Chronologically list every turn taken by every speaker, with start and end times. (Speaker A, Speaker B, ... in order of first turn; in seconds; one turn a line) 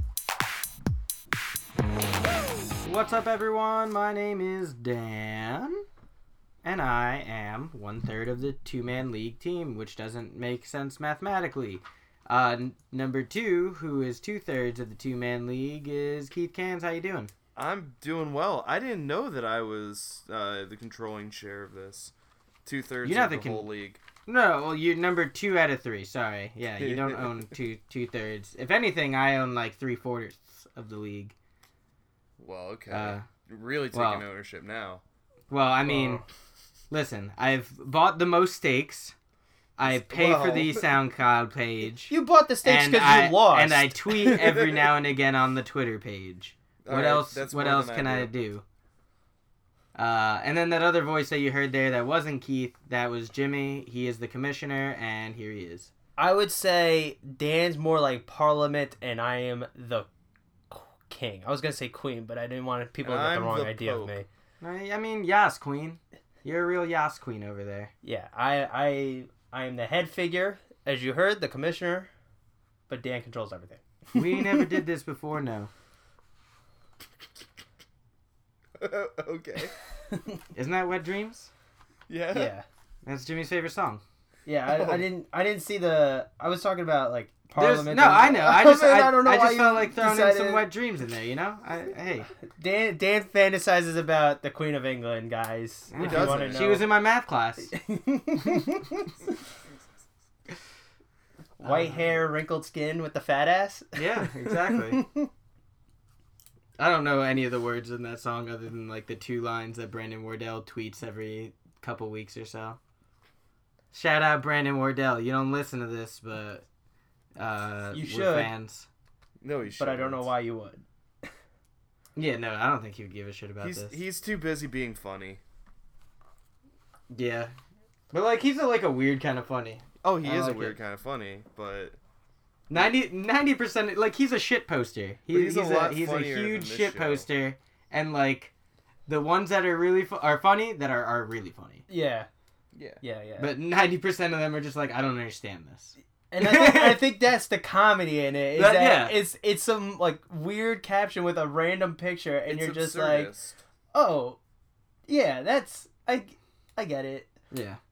Speaker A: 2.8-5.8
Speaker A: 6.6-17.3
Speaker B: 17.6-22.1
Speaker B: 22.6-24.0
Speaker A: 23.0-23.7
Speaker A: 24.3-31.3
Speaker B: 26.8-27.5
Speaker B: 32.4-35.0
Speaker A: 32.9-33.3
Speaker A: 33.9-34.2
Speaker A: 35.5-36.2
Speaker C: 35.9-36.2
Speaker A: 36.9-39.1
Speaker A: 39.8-42.1
Speaker B: 39.8-40.8
Speaker C: 42.1-44.7
Speaker A: 42.6-48.6
Speaker B: 46.9-48.3
Speaker A: 50.0-55.9
Speaker C: 56.2-60.1
Speaker C: 60.7-64.3
Speaker B: 63.0-64.2
Speaker A: 64.6-67.9
Speaker C: 68.0-72.1
Speaker C: 72.9-74.8
Speaker A: 74.2-75.7
Speaker B: 78.8-79.7
Speaker C: 80.1-80.4
Speaker A: 80.5-81.5
Speaker B: 82.1-82.5
Speaker C: 82.3-82.7
Speaker A: 83.0-84.0
Speaker C: 84.5-90.7
Speaker B: 84.7-85.1
Speaker A: 87.6-92.3
Speaker C: 92.5-96.9
Speaker A: 95.9-97.7
Speaker B: 96.0-96.8
Speaker C: 97.7-99.2
Speaker C: 101.6-105.3
Speaker A: 101.6-102.1
Speaker A: 104.0-105.0
Speaker A: 106.8-112.8
Speaker A: 113.9-116.7
Speaker A: 117.4-118.9
Speaker C: 117.9-118.5
Speaker B: 119.4-120.3
Speaker C: 119.8-121.3
Speaker A: 122.2-124.0
Speaker B: 123.6-125.4
Speaker A: 127.1-127.5
Speaker A: 128.1-130.8
Speaker B: 130.0-132.0
Speaker A: 132.7-138.5
Speaker B: 135.3-137.3
Speaker A: 139.1-141.9
Speaker C: 141.9-142.3
Speaker B: 142.7-143.0
Speaker C: 143.0-143.5
Speaker A: 143.4-147.0
Speaker C: 146.3-153.3
Speaker A: 148.6-149.2
Speaker B: 152.5-153.6
Speaker C: 153.9-154.4
Speaker C: 155.1-157.3
Speaker A: 157.5-157.8